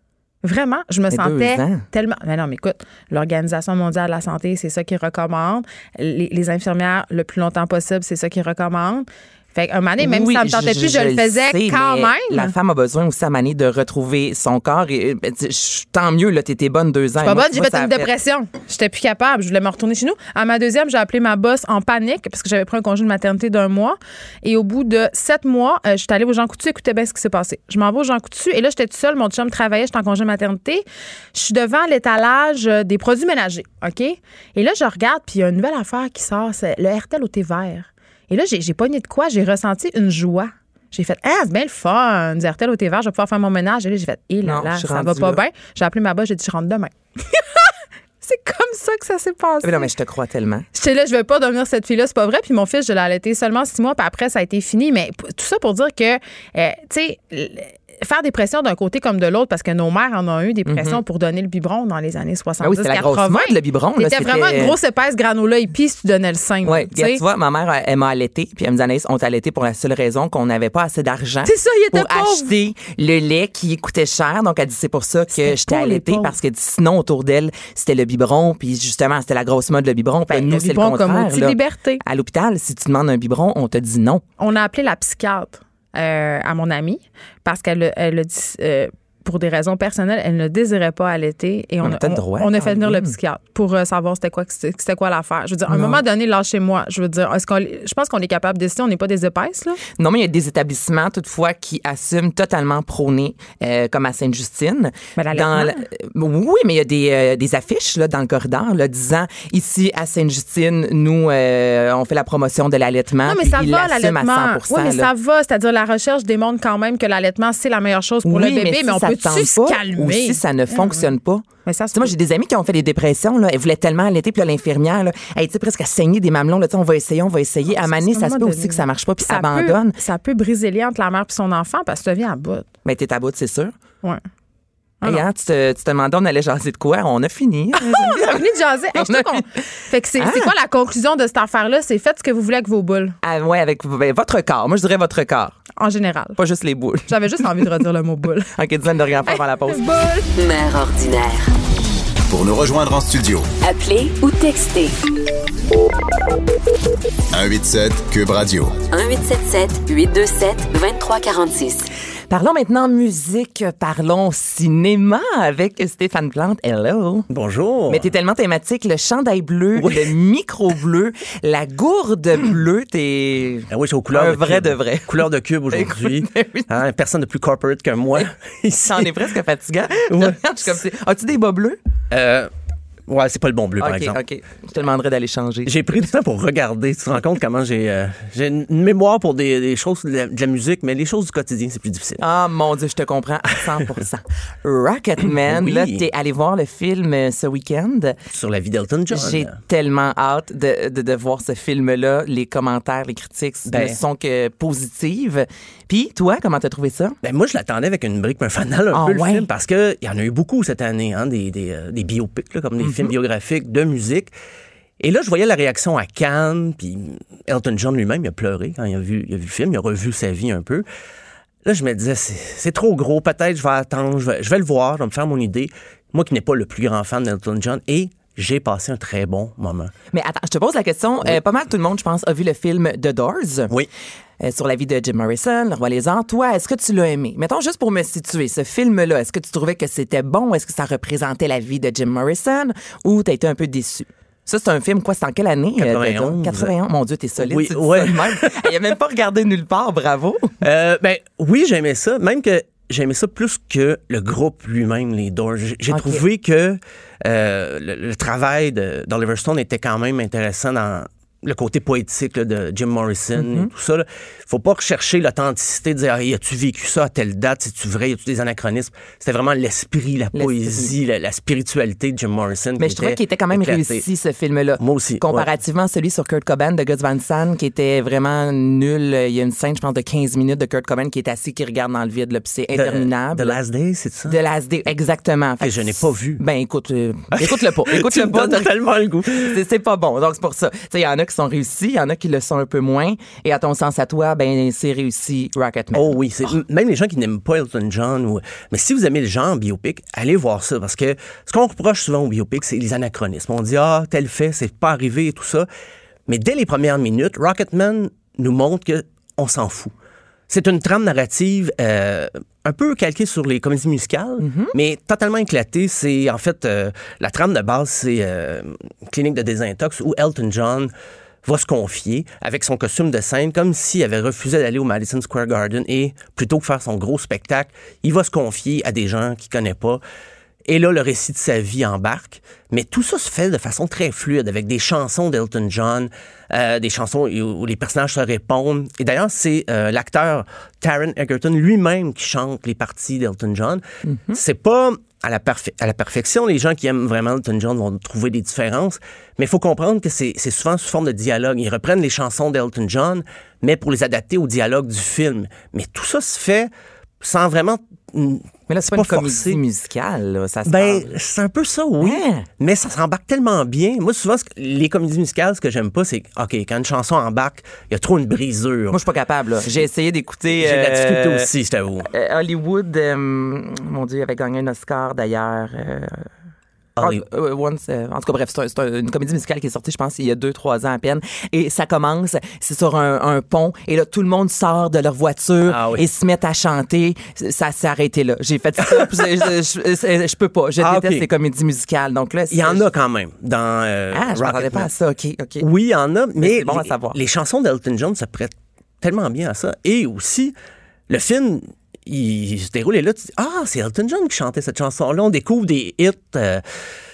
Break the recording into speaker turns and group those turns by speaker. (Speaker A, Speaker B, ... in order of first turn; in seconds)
Speaker A: 0.4-12.5, 17.2-49.9, 50.7-67.2, 71.4-72.5, 75.3-76.3, 80.3-82.0, 84.4-99.8, 105.2-105.8, 113.2-121.1, 121.7-122.1, 127.7-132.7, 137.8-143.2, 145.8-146.4, 147.1-148.5, 149.3-150.3
Speaker B: 1.1-1.8, 10.0-18.1, 44.4-45.4, 49.6-50.6, 60.6-61.0, 62.6-64.8, 66.6-84.2, 91.8-93.1, 95.7-96.0, 99.9-115.1, 118.2-130.0, 132.8-133.7, 135.0-139.4, 140.2-140.5, 143.2-145.6, 146.4-147.8, 148.5-149.8, 162.3-167.3, 167.9-176.7, 178.8-181.8, 183.8-185.9, 192.2-198.2, 199.1-207.2, 208.9-209.5, 212.8-213.1, 230.1-233.7, 234.4-250.5, 255.9-256.2, 263.3-263.7, 270.3-270.9, 272.8-283.6, 284.3-288.7, 289.2-296.5, 314.4-314.7, 344.1-344.4, 358.7-361.1, 362.0-362.4, 368.9-371.5, 372.1-376.3, 377.0-392.9, 394.1-395.7, 396.4-397.2
Speaker C: 150.3-151.5, 153.6-154.9, 158.9-161.9
Speaker D: 152.3-153.5, 157.3-158.8
Speaker E: 167.3-168.1, 169.8-170.1, 173.7-179.2, 180.1-180.4, 182.1-182.5, 183.1-184.2, 185.7-192.2, 195.4-196.0, 198.3-199.6, 203.7-204.0, 207.2-214.3, 215.0-220.8, 221.6-229.9, 245.8-246.7, 247.4-248.5, 250.6-274.0, 274.8-275.5, 282.7-284.4, 285.6-286.4, 287.3-289.6, 295.9-305.7, 306.3-309.9, 310.5-320.9, 321.4-330.0, 330.7-356.7, 357.2-359.6, 360.6-369.0, 370.5-372.1, 377.0-377.2, 385.6-386.0, 390.8-391.3, 392.5-394.9, 395.6-400.5, 401.1-406.6